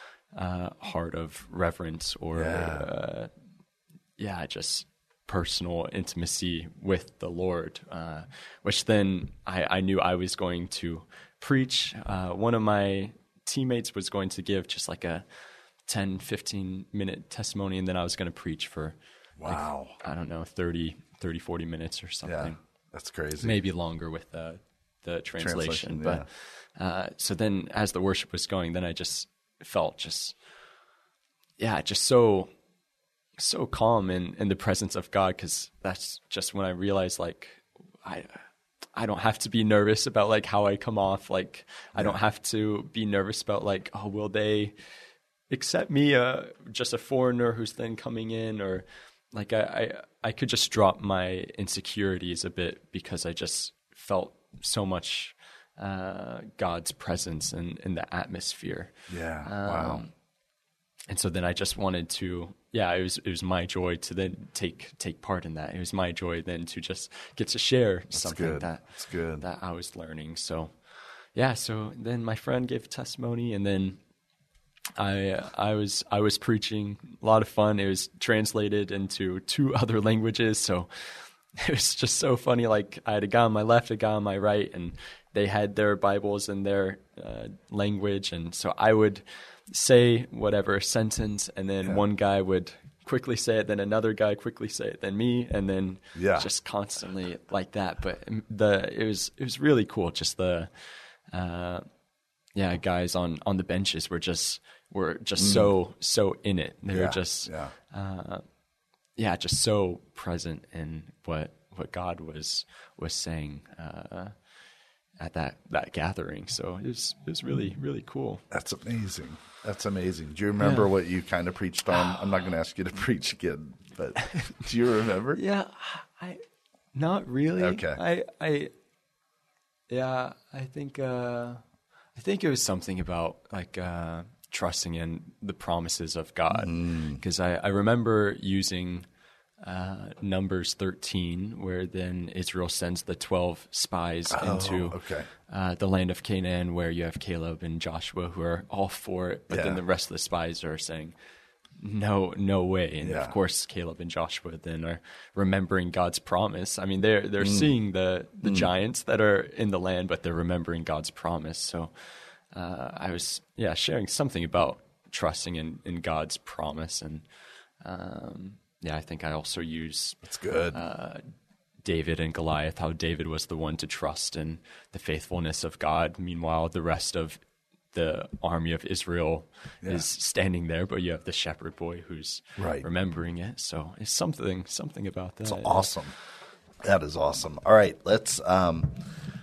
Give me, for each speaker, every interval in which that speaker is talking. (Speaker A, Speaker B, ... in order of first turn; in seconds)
Speaker A: 0.3-3.3, 4.2-15.2, 15.9-22.6, 23.4-30.4, 31.6-32.5, 33.4-38.4, 38.9-44.7, 45.5-60.1, 61.1-70.8, 71.3-74.0, 75.0-100.7, 101.3-101.8, 102.5-108.4, 109.2-114.3, 115.2-118.4, 120.6-120.9, 121.9-122.2, 125.3-126.4, 126.9-128.7, 129.9-131.6, 132.1-139.1, 139.6-151.1, 151.8-161.9, 162.5-167.2, 167.8-171.3, 171.8-177.4, 177.9-185.9
Speaker B: 2.3-2.9, 19.4-19.9, 22.2-23.6, 25.4-26.3, 59.1-60.0, 68.1-69.4, 96.1-96.5, 105.4-105.7, 106.9-107.7, 118.5-125.4, 127.6-128.0, 136.5-137.2, 144.3-145.3, 149.5-149.8, 153.0-153.3, 157.4-157.7, 158.4-158.7, 170.2-170.8, 182.6-182.9, 185.4-186.1, 186.8-189.2